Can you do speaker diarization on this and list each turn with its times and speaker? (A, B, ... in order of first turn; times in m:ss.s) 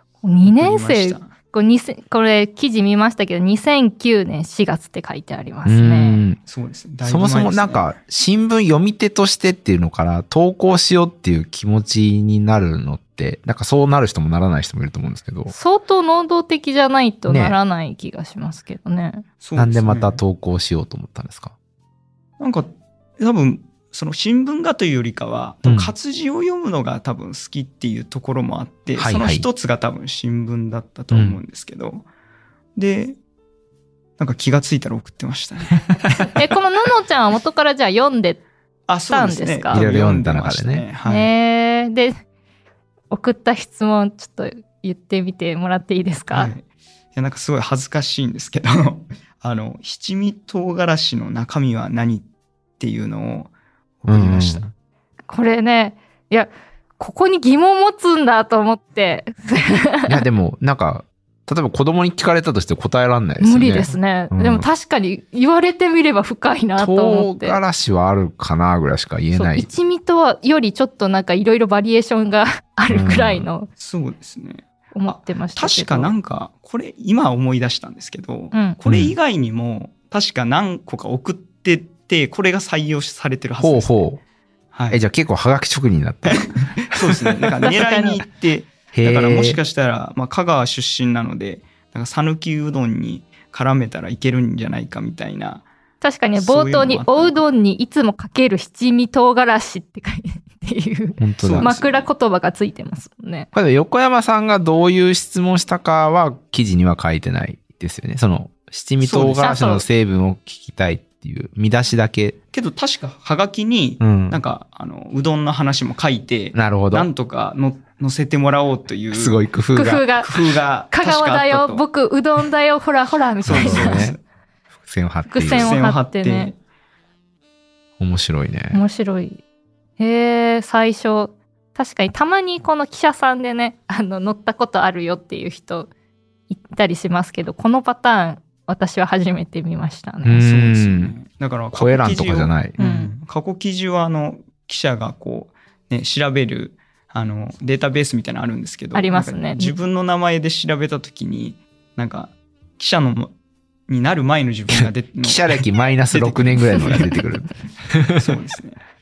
0:00.2-0:06.2 A
0:00.4-0:01.3 B
0:05.6-0:06.4 C
0:06.4-0:07.9 B
0:07.0-0:15.5 C
0:15.5-0:19.2 A
0:17.3-0:17.6 C
0:19.4-0:20.2 B
0:19.6-0:21.6 C
0:22.4-0:32.1 B
0:25.6-0:25.9 C
0:29.0-0:29.5 C
0:31.1-0:31.4 C
0:32.8-0:33.2 B
0:34.2-0:35.9 B
0:36.3-0:38.4 A
0:38.9-0:41.3 B
0:39.1-0:39.8 A
0:39.7-0:40.8 C
0:41.1-0:42.2 A
0:43.1-0:46.5 A
0:46.3-0:52.3 B
0:52.8-0:54.7 B
0:54.1-0:54.7 C
0:55.3-1:00.2 A
1:00.1-1:04.7 C
1:03.4-1:07.6 A
1:06.8-1:09.7 C
1:09.3-1:13.7 A
1:12.9-1:13.5 C
1:13.8-1:23.9 B
1:14.9-1:16.2 A
1:18.9-1:19.2 C
1:23.6-1:24.2 C
1:24.7-1:25.0 B
1:24.9-1:27.1 C
1:26.2-1:35.7 B
1:27.8-1:28.2 A
1:28.9-1:29.6 C
1:36.0-1:43.5 A
1:36.4-1:37.4 B
1:41.2-1:41.7 C
1:41.4-1:42.1 B
1:43.5-1:52.4 C
1:49.0-1:49.6 B
1:49.4-1:49.8 A
1:52.5-1:59.4 B
1:54.0-1:54.4 C
1:56.5-1:57.1 C
1:59.1-2:00.1 C
1:59.8-2:00.3 A
2:00.2-2:01.8 B
2:00.9-2:04.1 A
2:03.4-2:04.2 B
2:03.5-2:04.2 C
2:04.8-2:05.8 C
2:05.3-2:06.5 A
2:05.4-2:06.6 B
2:08.0-2:08.8 C
2:08.7-2:09.4 A
2:10.0-2:15.9 A
2:16.5-2:20.4 A
2:20.2-2:21.2 C
2:20.4-2:33.4 B
2:21.7-2:22.8 C
2:22.8-2:23.1 A
2:28.9-2:29.8 A
2:33.9-2:37.2 B
2:34.7-2:38.3 C
2:38.2-2:38.8 B